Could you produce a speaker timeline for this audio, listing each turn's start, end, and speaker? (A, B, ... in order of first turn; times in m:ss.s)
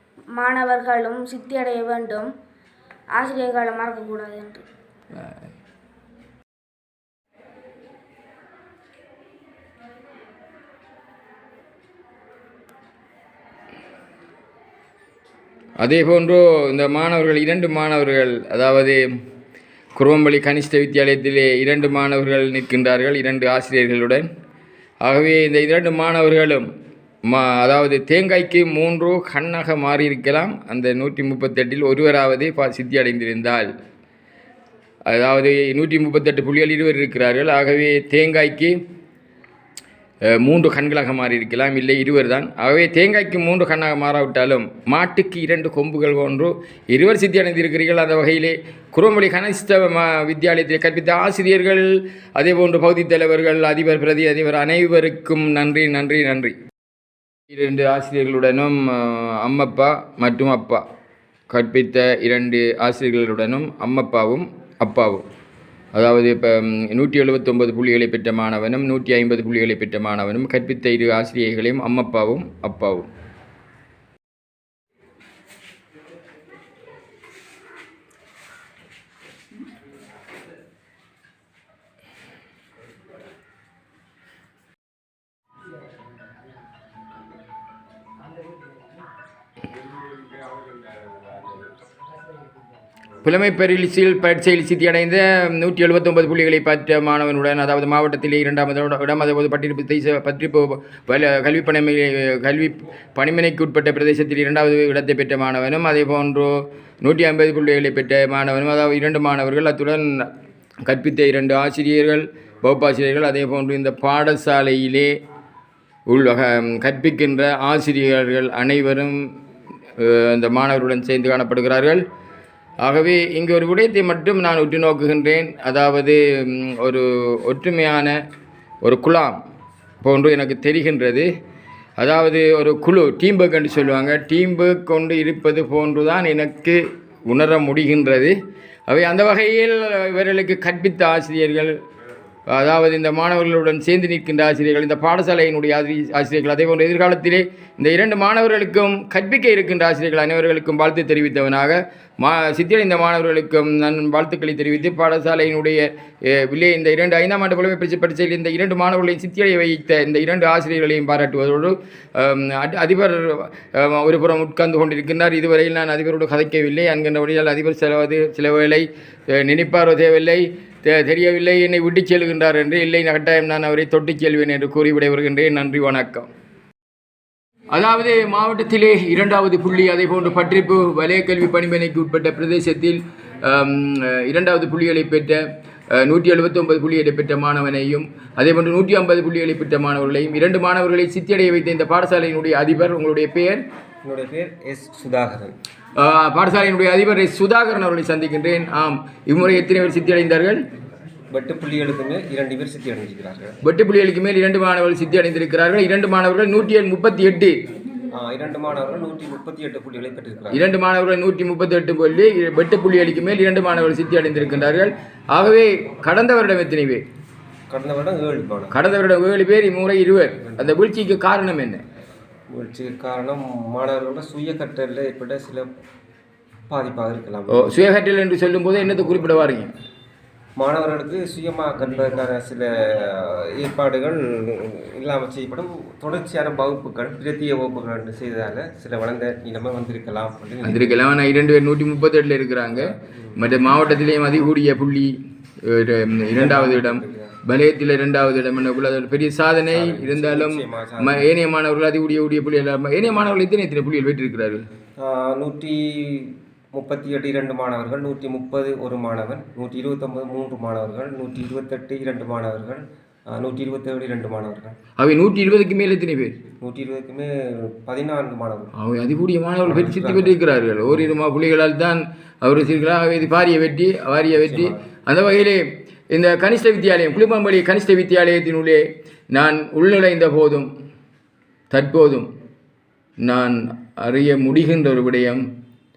0:00.4-0:02.3 A
0:03.2-0:04.6 A
0:15.8-0:19.0 B
0:20.0-0:24.2 B
0:25.0-0:26.7 B
0:27.3-0:33.7 B
0:35.1-0:38.8 B
0:40.3-0:56.6 B
0:57.5-1:00.8 B
1:01.5-1:05.2 B
1:06.0-1:13.1 B
1:33.2-1:50.3 B
1:50.9-1:55.1 B
1:56.1-1:59.2 B
2:00.0-2:02.0 B
2:02.8-2:08.2 B
2:08.8-2:09.4 B
2:10.0-2:11.3 B
2:12.0-2:18.4 B
2:18.9-2:21.8 B
2:22.5-2:56.3 B
2:57.7-3:13.6 B
3:14.0-3:15.5 C
3:16.0-3:20.6 B
3:21.3-3:23.6 C
3:23.6-3:27.6 B
3:28.1-3:30.6 C
3:30.5-3:37.0 B
3:37.7-3:38.7 C
3:38.7-3:41.8 B
3:42.5-3:45.7 C
3:46.7-3:47.7 C
3:47.5-3:49.7 B
3:50.6-4:01.0 C
4:00.6-4:02.9 B
4:02.8-4:03.4 C
4:03.4-4:05.1 B
4:05.7-4:14.6 B
4:06.4-4:07.3 C
4:09.7-4:11.3 C
4:15.0-4:24.8 C
4:25.0-4:26.4 B
4:26.6-4:28.7 C
4:28.8-4:40.7 B
4:29.6-4:30.4 C
4:34.4-4:34.8 C
4:41.7-4:42.3 B
4:43.2-4:45.4 B